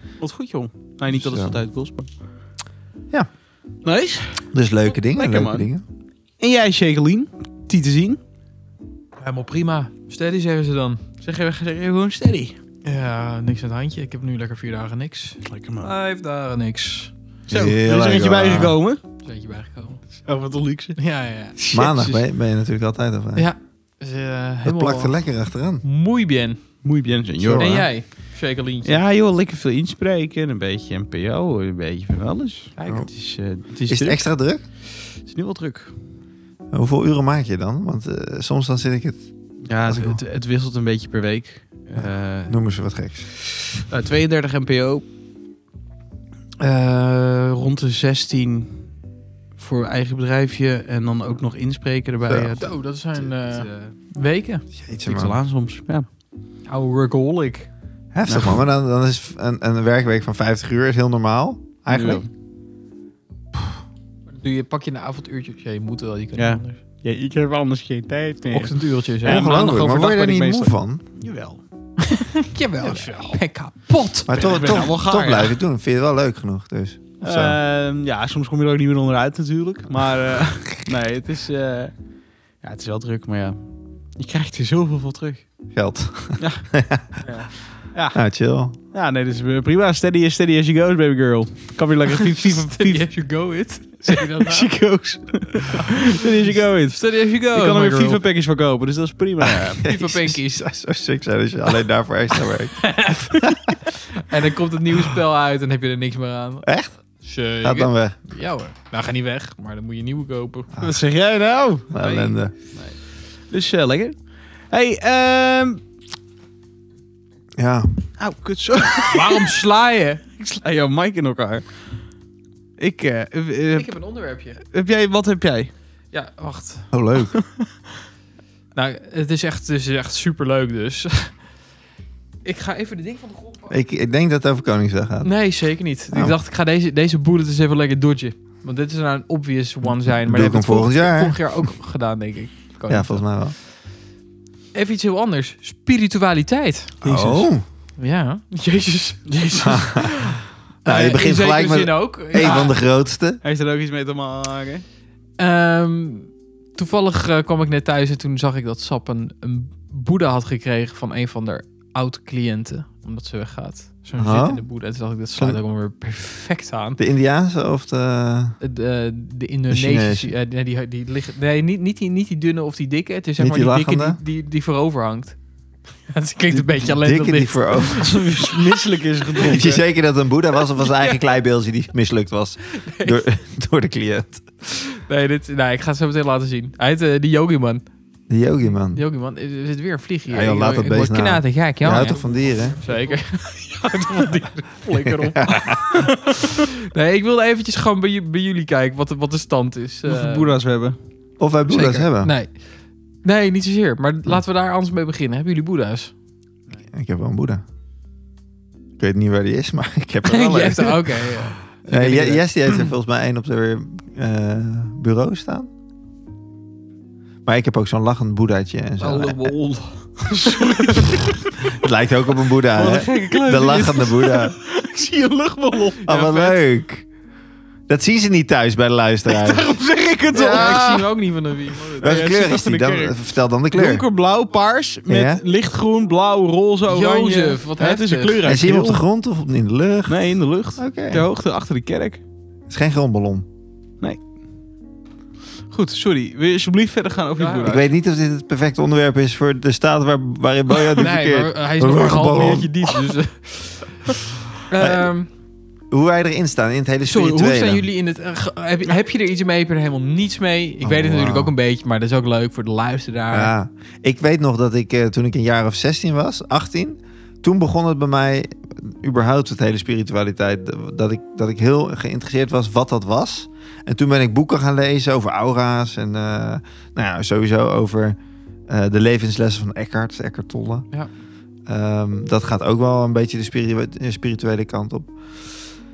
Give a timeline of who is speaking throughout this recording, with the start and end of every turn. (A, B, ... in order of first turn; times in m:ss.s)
0:00.2-0:02.1 A
0:01.1-0:01.6 B
0:03.8-0:04.4 A
0:04.5-0:05.8 B
0:05.0-0:05.7 A
0:06.4-0:08.2 A
0:09.2-0:11.0 C
0:11.2-0:12.5 A
0:12.8-0:17.1 C
0:15.4-0:15.9 A
0:17.5-0:19.0 A
0:17.5-0:18.8 B
0:19.2-0:20.0 C
0:20.3-0:21.0 A
0:21.0-0:21.6 C
0:21.6-0:22.2 A
0:21.7-0:23.5 B
0:23.4-0:25.2 C
0:24.6-0:25.8 B
0:25.8-0:26.6 C
0:26.8-0:27.9 A
0:27.4-0:27.9 B
0:27.6-0:29.0 C
0:28.8-0:34.2 A
0:32.8-0:33.0 C
0:33.9-0:34.6 B
0:35.1-0:35.9 A
0:36.7-0:39.2 B
0:39.7-0:42.6 A
0:39.9-0:40.2 B
0:42.0-0:43.3 B
0:43.3-0:45.0 A
0:46.6-0:48.9 A
0:49.6-0:53.9 A
0:52.3-0:52.6 B
0:52.6-0:54.6 C
0:54.8-0:55.4 B
0:55.0-0:56.1 A
0:56.7-0:57.7 C
0:58.1-1:02.2 B
0:58.3-0:58.6 A
1:01.9-1:02.3 A
1:04.4-1:06.8 C
1:06.4-1:11.6 A
1:08.5-1:09.5 C
1:09.2-1:11.0 B
1:12.0-1:14.6 C
1:12.8-1:13.4 A
1:14.3-1:17.6 B
1:14.3-1:15.6 A
1:17.2-1:21.9 A
1:22.6-1:23.6 A
1:24.2-1:25.4 A
1:25.7-1:27.2 B
1:27.9-1:28.2 A
1:28.1-1:28.7 B
1:28.9-1:33.1 A
1:32.2-1:34.7 C
1:34.0-1:39.8 A
1:36.9-1:38.2 C
1:39.4-1:43.0 B
1:39.8-1:40.6 C
1:42.8-1:43.3 C
1:43.9-1:46.7 C
1:46.6-1:46.9 B
1:47.2-1:50.8 C
1:47.6-1:48.2 B
1:50.8-1:51.9 A
1:51.9-1:52.5 B
1:52.0-1:52.3 C
1:52.7-1:54.2 A
1:54.7-1:55.8 A
1:57.6-1:57.9 B
1:58.2-1:59.6 A
1:59.0-2:00.2 C
2:00.4-2:01.7 A
2:02.8-2:03.9 A
2:03.8-2:04.6 C
2:04.7-2:05.7 A
2:06.1-2:06.9 C
2:06.9-2:07.4 B
2:08.8-2:11.4 C
2:12.4-2:13.7 C
2:13.7-2:15.4 B
2:15.2-2:23.3 C
2:16.1-2:16.4 B
2:20.0-2:21.7 B
2:22.9-2:23.6 B
2:24.7-2:27.0 C
2:27.0-2:27.5 A
2:27.0-2:27.6 B
2:28.0-2:32.7 C
2:29.3-2:29.6 A
2:29.6-2:30.2 B
2:30.8-2:33.4 B
2:32.4-2:32.7 A
2:33.4-2:34.8 A
2:35.4-2:47.0 C
2:44.2-2:44.7 B
2:47.0-2:48.6 B
2:48.6-2:55.4 C
2:49.7-2:50.3 B
2:53.4-2:54.2 B
2:56.1-2:58.6 C
2:56.6-2:56.8 A
2:57.0-2:58.1 B
2:57.9-2:59.8 A
2:59.5-3:04.4 B
3:02.7-3:03.2 C
3:04.7-3:07.8 C
3:08.3-3:09.0 B
3:08.9-3:12.2 C
3:10.3-3:12.8 B
3:12.8-3:20.6 C
3:15.0-3:15.9 B
3:20.0-3:21.0 A
3:21.4-3:22.3 B
3:21.7-3:22.6 C
3:23.2-3:26.1 C
3:26.9-3:27.6 B
3:29.0-3:31.2 B
3:30.2-3:32.4 C
3:31.8-3:35.7 B
3:37.5-3:39.5 B
3:39.0-3:41.5 A
3:41.7-3:44.5 B
3:42.7-3:46.6 A
3:46.1-3:47.1 B
3:47.9-3:49.7 B
3:49.3-3:51.1 A
3:50.3-3:50.8 B
3:50.3-3:52.1 C
3:51.8-3:53.2 A
3:52.0-3:54.0 B
3:53.7-3:59.0 A
3:55.1-3:55.4 B
3:56.9-3:58.4 C
3:58.4-4:00.3 B
4:00.1-4:02.2 A
4:00.8-4:01.2 B
4:02.7-4:03.5 B
4:05.7-4:07.8 A
4:07.4-4:07.8 C
4:07.6-4:13.1 B
4:11.0-4:14.1 C
4:14.7-4:15.3 C
4:14.8-4:15.1 B
4:15.9-4:17.9 B
4:17.1-4:23.5 C
4:20.8-4:21.5 B
4:23.3-4:38.2 B
4:38.7-4:40.9 B
4:41.7-4:45.6 B